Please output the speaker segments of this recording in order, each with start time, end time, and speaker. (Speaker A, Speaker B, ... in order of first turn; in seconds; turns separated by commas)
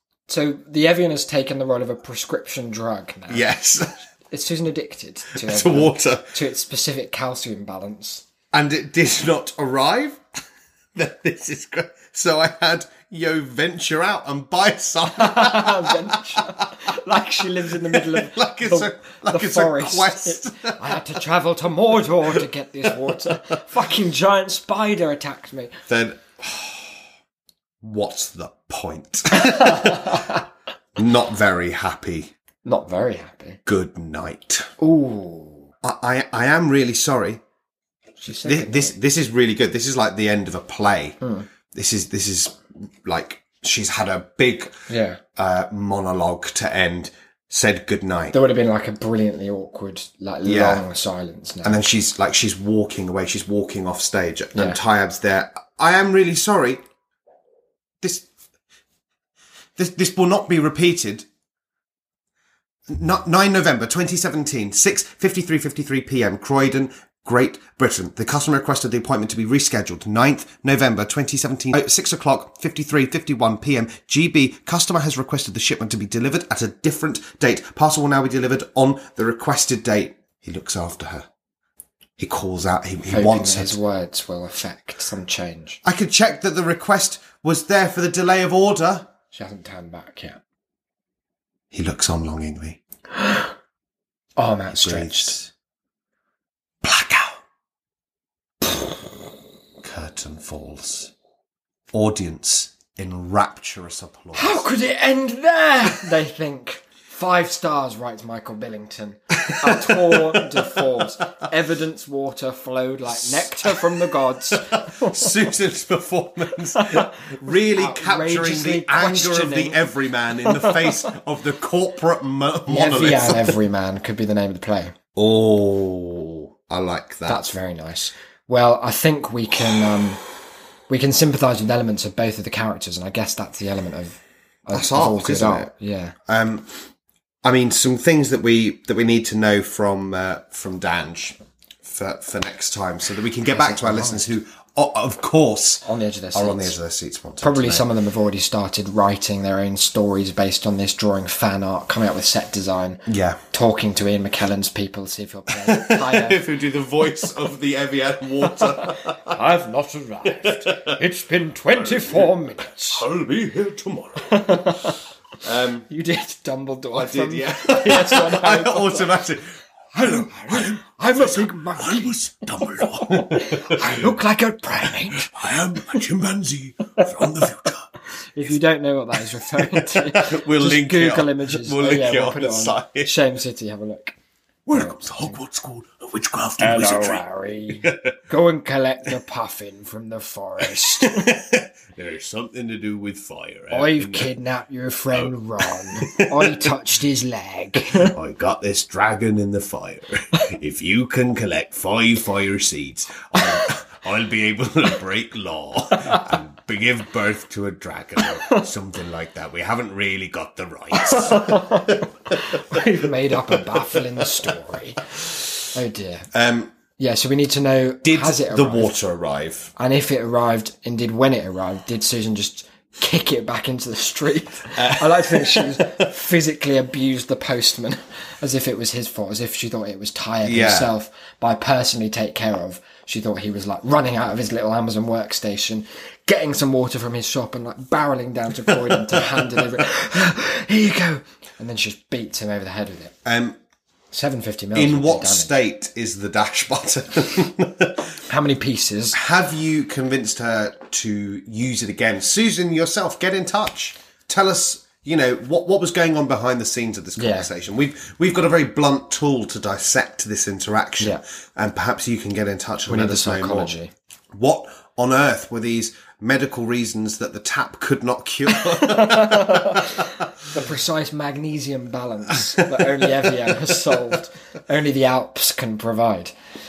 Speaker A: 0.3-3.5, Speaker B: 3.3-3.9, Speaker A: 4.3-8.2, Speaker B: 5.3-6.3, Speaker B: 8.5-10.2, Speaker B: 10.9-16.5, Speaker A: 15.1-25.8, Speaker B: 17.6-21.0, Speaker B: 22.3-23.4, Speaker B: 25.9-27.0, Speaker B: 27.8-30.3, Speaker A: 29.3-30.4, Speaker B: 30.9-32.3, Speaker A: 32.6-33.6, Speaker B: 33.6-34.7, Speaker A: 34.8-35.7, Speaker B: 35.8-37.4, Speaker A: 38.2-38.9, Speaker B: 38.4-41.2, Speaker A: 41.2-41.5, Speaker B: 41.7-44.8, Speaker A: 44.9-45.2, Speaker B: 45.4-48.4, Speaker A: 48.3-51.8, Speaker B: 50.4-50.8, Speaker B: 51.6-56.8, Speaker A: 54.5-54.8, Speaker B: 58.0-58.3, Speaker B: 59.8-61.2, Speaker B: 62.9-81.3, Speaker B: 82.2-83.8, Speaker A: 83.1-85.8, Speaker B: 85.8-89.1, Speaker A: 89.3-90.4, Speaker B: 91.7-92.8, Speaker A: 93.2-93.5, Speaker A: 94.4-95.4, Speaker B: 94.7-95.5, Speaker B: 96.8-97.4, Speaker B: 99.8-101.1, Speaker B: 101.9-104.7, Speaker A: 104.3-115.4, Speaker B: 109.4-110.9, Speaker B: 113.1-123.6, Speaker A: 116.8-119.8, Speaker A: 120.4-121.0, Speaker A: 122.7-124.9, Speaker B: 125.2-127.4, Speaker A: 127.3-130.2, Speaker A: 130.9-136.1, Speaker B: 134.7-135.7, Speaker B: 136.3-136.8, Speaker B: 137.4-147.8, Speaker A: 143.4-144.3, Speaker A: 145.8-146.7, Speaker A: 147.4-156.4, Speaker B: 153.1-153.4, Speaker B: 155.5-159.4, Speaker A: 158.5-163.1, Speaker B: 160.2-161.0, Speaker B: 161.7-165.8, Speaker A: 164.2-165.0, Speaker A: 165.9-169.2, Speaker B: 166.9-174.2, Speaker A: 169.9-175.3, Speaker B: 174.8-177.9, Speaker A: 178.3-184.2, Speaker B: 179.4-183.1, Speaker B: 184.7-187.2, Speaker A: 184.7-185.4, Speaker A: 186.6-191.3, Speaker B: 187.8-188.1, Speaker B: 190.6-194.3, Speaker A: 193.7-198.1, Speaker B: 195.1-196.7, Speaker B: 197.9-212.8, Speaker A: 210.9-215.1, Speaker B: 213.5-214.5, Speaker A: 215.7-216.3, Speaker B: 216.3-216.7, Speaker A: 217.0-218.9, Speaker B: 218.0-219.7, Speaker A: 219.8-243.1, Speaker B: 224.8-226.1, Speaker B: 230.4-230.9, Speaker B: 238.7-239.8, Speaker B: 243.2-243.6, Speaker A: 244.1-245.5, Speaker B: 244.7-248.1, Speaker A: 248.3-249.2, Speaker B: 249.1-263.7, Speaker A: 257.1-257.5, Speaker A: 262.9-263.9, Speaker B: 264.3-270.1, Speaker A: 268.5-276.3